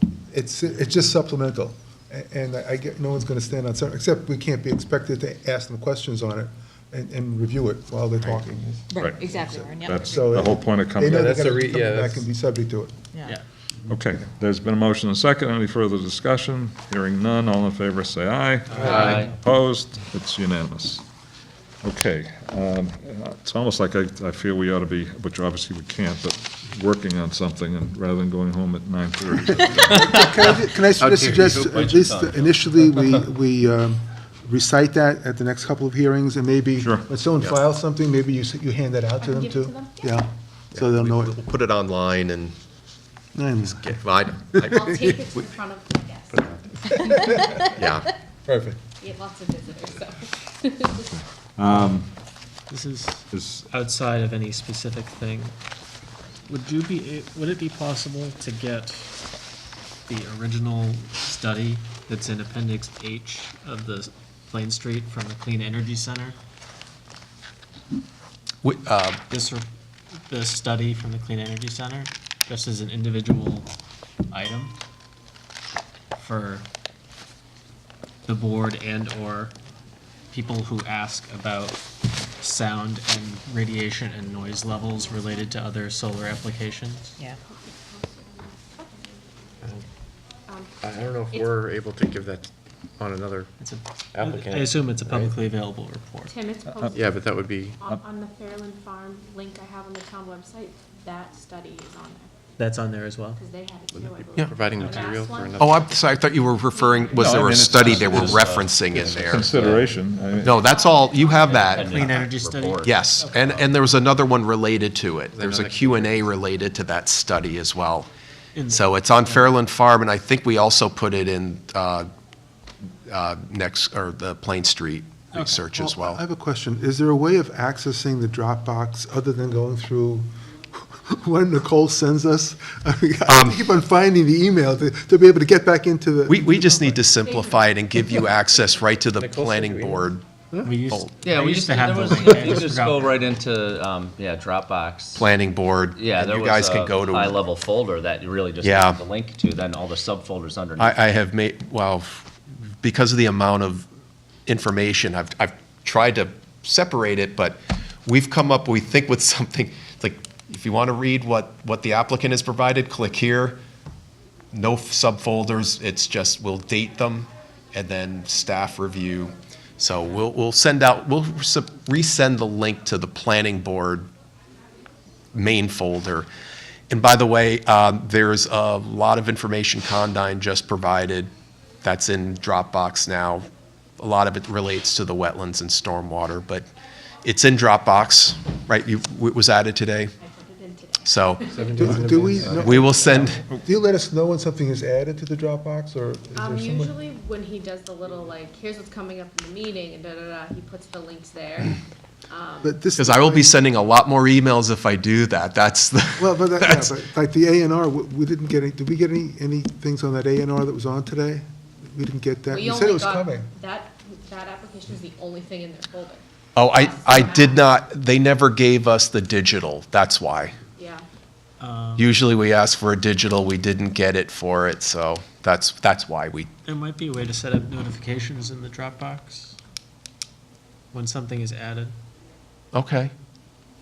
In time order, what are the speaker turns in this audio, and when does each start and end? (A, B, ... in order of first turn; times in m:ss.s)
0:00.3-0:12.9 A
0:08.9-0:10.4 B
0:09.0-0:09.3 C
0:09.8-0:11.3 C
0:11.1-0:12.2 D
0:13.1-0:13.4 B
0:13.9-0:21.0 C
0:18.7-0:19.4 E
0:21.8-0:30.0 C
0:29.4-0:41.4 A
0:31.0-0:32.5 F
0:36.8-0:37.1 C
0:39.2-0:40.0 G
0:40.7-0:42.6 H
0:43.3-0:43.9 A
0:43.7-0:45.1 H
0:44.6-0:47.4 G
0:46.3-0:46.6 D
0:47.2-0:47.7 B
0:47.8-0:48.1 H
0:48.5-0:48.8 A
0:49.0-0:51.1 G
0:51.0-0:52.1 C
0:52.7-0:55.5 E
0:53.3-0:53.6 C
0:56.5-0:59.1 E
1:00.1-1:06.4 E
1:08.6-1:09.2 H
1:09.3-1:09.6 E
1:10.3-1:13.7 E
1:14.3-1:14.7 E
1:16.1-1:16.6 E
1:18.2-1:19.5 E
1:20.3-1:21.8 E
1:22.4-1:27.2 E
1:24.8-1:25.5 G
1:27.4-1:29.6 G
1:30.5-1:31.6 G
1:30.8-1:33.5 D
1:33.6-1:36.3 E
1:34.1-1:35.3 D
1:36.3-1:42.3 G
1:36.6-1:37.0 C
1:36.9-1:37.8 D
1:42.6-1:43.4 E
1:43.4-1:47.6 G
1:43.9-1:46.1 D
1:45.6-1:49.6 H
1:47.1-1:48.5 C
1:47.7-1:49.9 F
1:49.1-1:50.6 C
1:50.4-1:52.2 H
1:50.4-1:52.2 G
1:51.4-1:53.6 F
1:51.7-1:53.7 E
1:52.8-1:58.1 H
1:55.3-1:56.3 D
1:58.6-1:59.5 E
1:58.7-2:02.1 H
2:03.1-2:06.2 H
2:05.3-2:05.6 E
2:05.7-2:17.0 A
2:13.2-2:13.6 H
2:16.3-2:21.2 H
2:17.2-2:18.1 G
2:19.2-2:20.7 D
2:20.6-2:23.3 E
2:21.2-2:25.3 F
2:25.2-2:27.5 H
2:25.9-2:31.0 F
2:28.6-2:29.0 H
2:30.8-2:32.3 H
2:32.8-2:33.8 H
2:34.4-2:43.6 H
2:44.5-2:54.1 H
2:55.3-2:56.3 H
2:56.9-3:01.3 H
3:01.8-3:03.4 H
3:04.0-3:06.6 H
3:07.2-3:10.1 H
3:10.2-3:11.9 G
3:11.0-3:13.4 H
3:11.5-3:12.9 D
3:11.7-3:16.9 A
3:13.3-3:13.6 C
3:16.3-3:22.8 G
3:22.6-3:23.7 A
3:23.0-3:26.9 H
3:26.2-3:33.5 A
3:32.5-3:37.7 G
3:36.6-3:40.6 H
3:40.8-3:41.0 G
3:41.6-3:42.1 E
3:42.0-3:46.5 H
3:46.6-3:49.6 E
3:50.9-3:51.9 E
3:52.7-3:53.1 H